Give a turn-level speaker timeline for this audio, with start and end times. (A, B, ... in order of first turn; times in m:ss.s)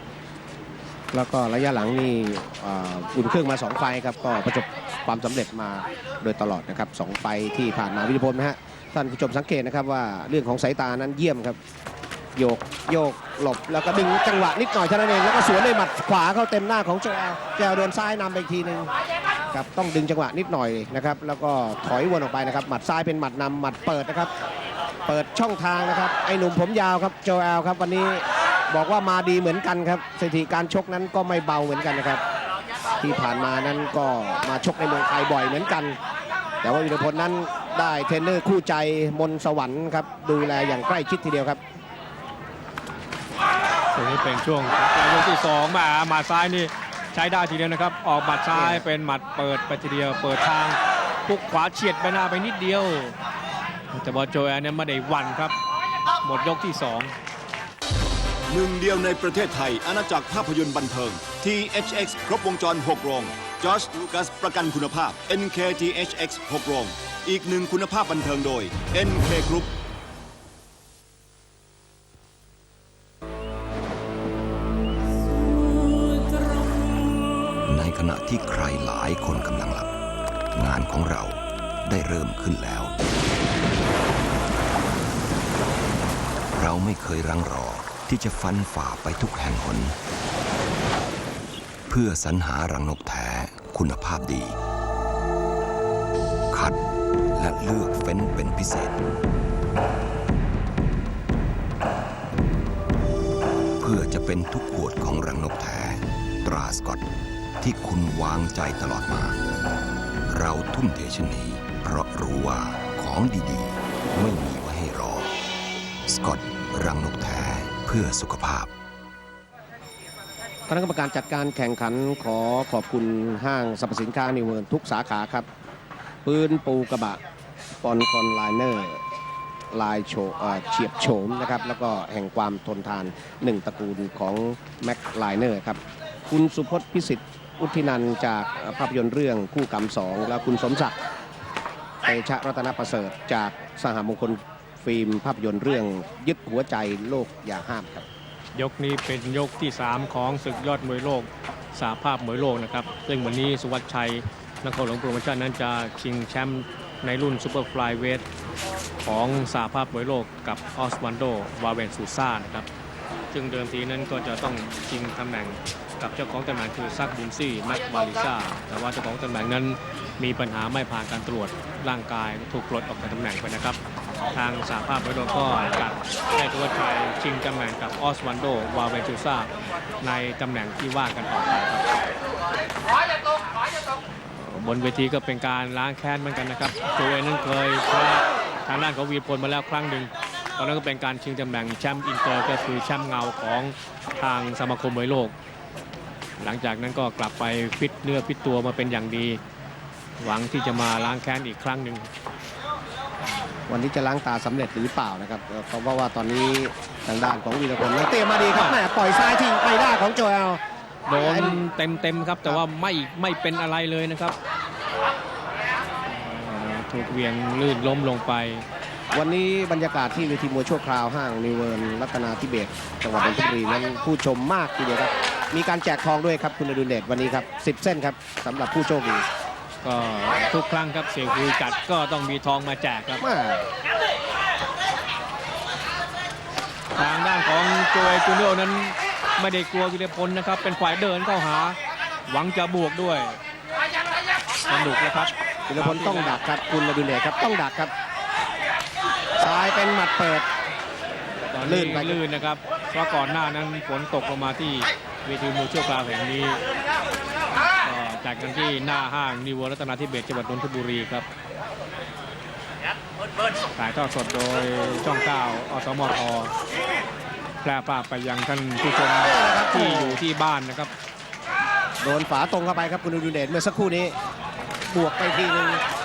0:01.1-0:11.6 A
0:12.4-0:18.9 A
0:19.5-0:24.3 A
0:25.1-0:32.2 A
0:33.0-0:36.0 A
0:36.6-0:41.6 A
0:43.9-0:53.2 B
0:48.5-0:48.9 A
0:53.9-0:55.6 B
0:56.2-0:57.1 B
0:58.5-1:09.7 C
1:17.6-1:19.9 D
1:20.5-1:23.0 D
1:26.5-1:30.0 D
1:31.9-1:34.6 D
1:36.5-1:36.8 D
1:37.3-1:39.0 D
1:43.8-1:47.1 D
1:47.6-1:49.4 D
1:50.3-1:55.3 D
1:56.0-1:58.7 D
2:00.7-2:05.4 A
2:06.2-2:07.2 A
2:07.8-2:09.0 A
2:09.7-2:21.0 A
2:22.0-2:28.0 A
2:28.5-2:38.2 B
2:39.0-2:42.7 B
2:43.3-2:53.8 B
2:54.3-3:01.9 B
3:04.3-3:15.3 B
3:16.4-3:19.4 B
3:20.2-3:22.1 B
3:23.7-3:30.6 A
3:28.5-3:28.8 B
3:31.1-3:34.4 B
3:31.1-3:31.6 A
3:36.0-3:38.6 B
3:39.1-3:49.2 A
3:49.8-3:53.2 B
3:53.2-3:53.6 A
3:56.9-4:01.8 B
4:02.3-4:03.4 B
4:04.7-4:06.4 B
4:05.7-4:07.9 A
4:09.4-4:10.5 A
4:11.5-4:16.6 B
4:11.6-4:12.2 A
4:17.8-4:21.3 B
4:23.7-4:26.5 B
4:27.6-4:30.9 B
4:29.2-4:30.2 A
4:32.0-4:34.1 A
4:34.9-4:35.8 A